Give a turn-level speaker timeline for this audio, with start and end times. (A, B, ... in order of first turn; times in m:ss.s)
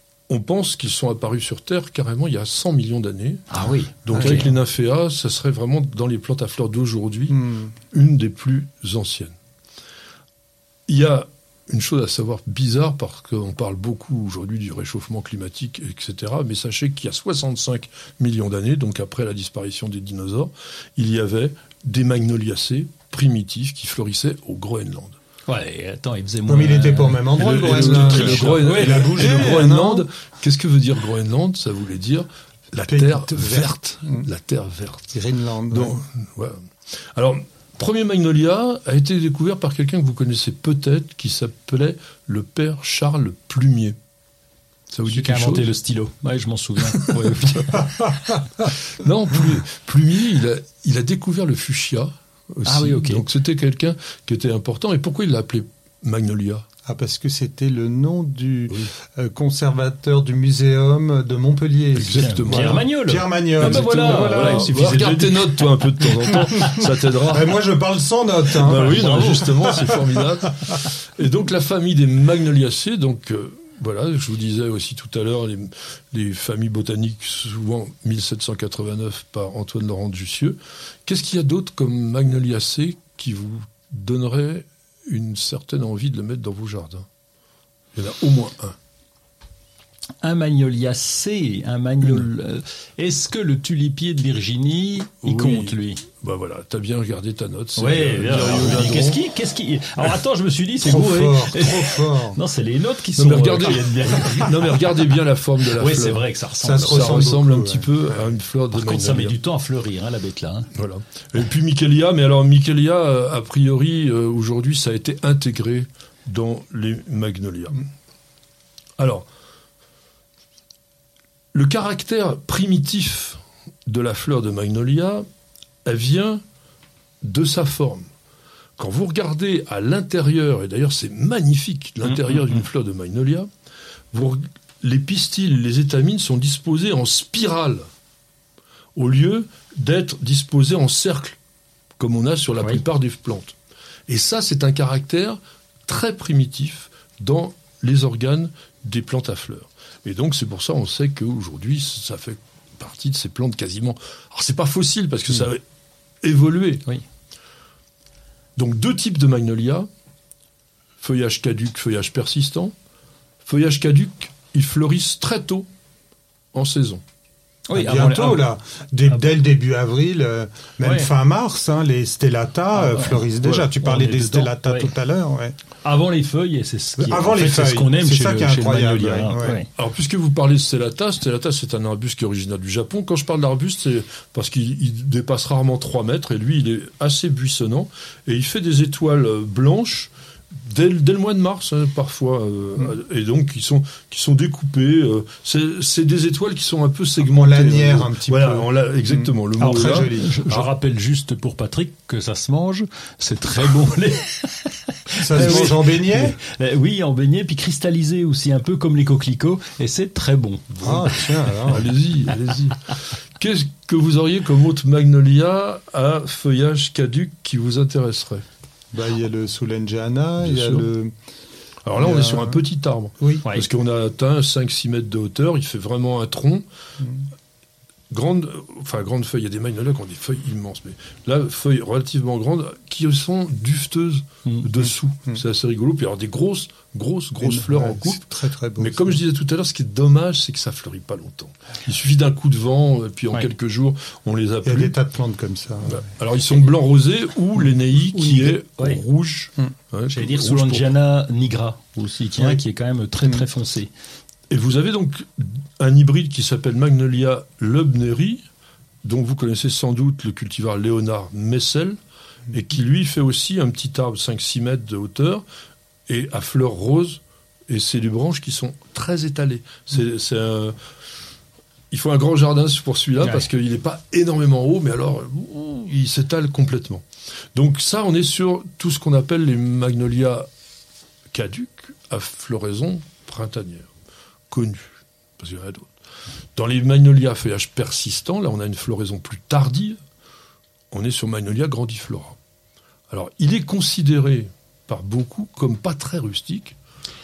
0:00.3-0:03.5 A
0:03.5-0:04.5 B
0:04.0-0:09.4 A
0:04.1-0:04.5 C
0:07.3-0:07.7 C
0:10.9-0:25.2 A
0:25.5-0:29.3 B
0:26.5-0:30.1 C
0:27.4-0:35.2 A
0:32.8-0:34.3 C
0:35.1-0:36.0 C
0:35.7-0:36.6 A
0:37.2-0:44.0 A
0:44.9-0:45.7 A
0:45.0-0:48.1 B
0:48.9-0:56.6 A
0:52.7-0:53.2 B
0:56.9-1:04.8 C
0:58.7-0:58.9 A
1:01.9-1:02.9 A
1:02.2-1:06.9 B
1:03.6-1:07.6 A
1:07.3-1:10.1 C
1:08.6-1:27.1 A
1:28.0-1:28.8 A
1:30.2-1:36.0 B
1:32.0-1:32.3 A
1:35.2-1:39.2 A
1:37.8-1:45.1 B
1:40.8-1:42.4 C
1:43.2-1:46.2 A
1:45.8-1:47.3 B
1:46.6-1:48.3 C
1:46.8-1:49.4 A
1:48.7-1:50.7 B
1:50.7-1:57.8 A
1:59.0-1:59.3 A
2:01.5-2:05.3 A
2:05.8-2:06.4 A
2:07.2-2:08.1 A
2:08.8-2:13.5 A
2:12.0-2:12.6 B
2:14.1-2:17.8 A
2:19.0-2:21.4 A
2:22.0-2:23.6 A
2:24.1-2:35.6 A
2:36.2-2:36.9 A
2:38.6-2:39.9 A
2:41.0-2:42.7 A
2:43.4-2:45.7 A
2:46.5-2:47.0 A
2:47.7-2:48.5 B
2:47.7-2:55.6 C
2:50.8-2:51.1 B
2:52.7-2:54.9 B
2:55.8-2:59.7 B
2:57.0-2:59.6 C
2:59.8-3:10.1 A
3:10.7-3:20.7 A
3:17.2-3:19.3 C
3:19.6-3:31.3 B
3:19.8-3:20.4 C
3:25.2-3:26.4 C
3:25.4-3:25.7 A
3:30.8-3:31.9 C
3:31.7-3:32.8 A
3:33.4-3:38.4 A
3:38.9-3:41.1 C
3:40.4-3:40.9 A
3:41.8-3:46.6 A
3:42.0-3:42.6 C
3:43.2-3:43.4 C
3:48.1-4:05.0 A
3:57.4-3:59.2 C
4:04.6-4:06.1 C
4:05.8-4:10.9 A
4:08.1-4:09.0 B
4:10.1-4:13.9 B
4:14.5-4:18.4 A
4:19.0-4:22.0 A
4:22.5-4:25.4 A
4:26.1-4:30.8 A
4:31.9-4:37.0 A
4:33.2-4:33.5 B
4:37.6-4:40.5 A
4:41.3-4:43.9 A
4:44.5-4:45.9 A
4:46.6-4:50.0 A
4:50.9-4:52.4 A
4:53.1-4:56.8 A